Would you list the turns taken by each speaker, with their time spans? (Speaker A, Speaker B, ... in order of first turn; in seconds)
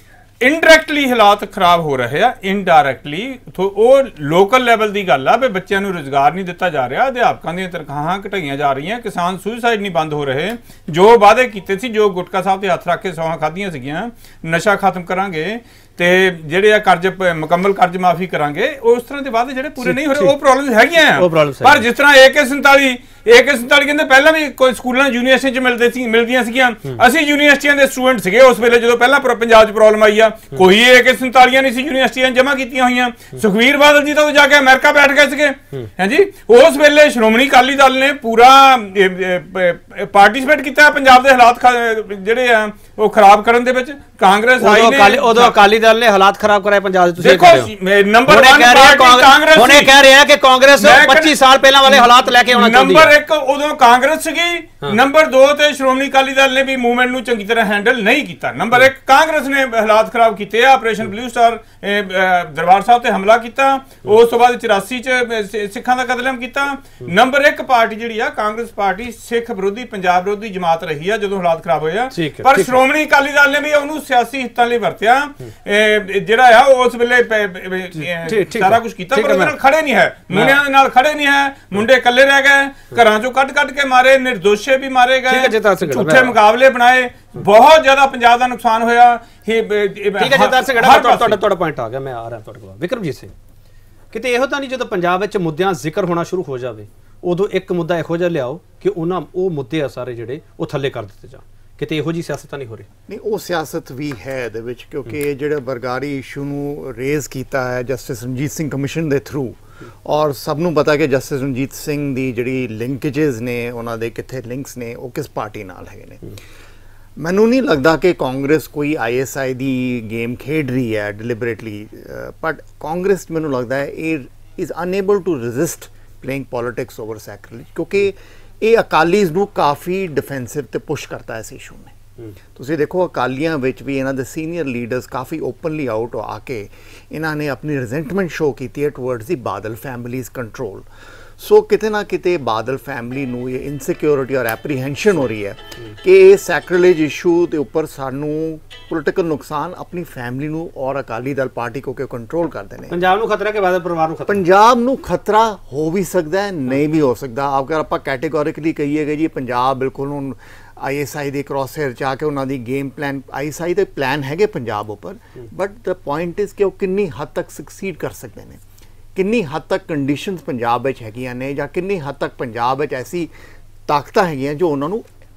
Speaker A: 0.4-45.6, 47.2-49.9, 50.8-91.4
Speaker B: 19.8-20.4, 21.1-21.9, 44.6-47.7, 48.3-53.1, 72.1-72.7, 78.0-79.5, 80.3-80.6, 85.3-86.3, 90.2-93.3, 94.1-102.9, 152.9-154.4
Speaker C: 103.1-116.2, 117.2-131.9, 132.6-140.9, 141.4-153.0, 154.3-168.6, 169.2-173.3, 173.9-175.1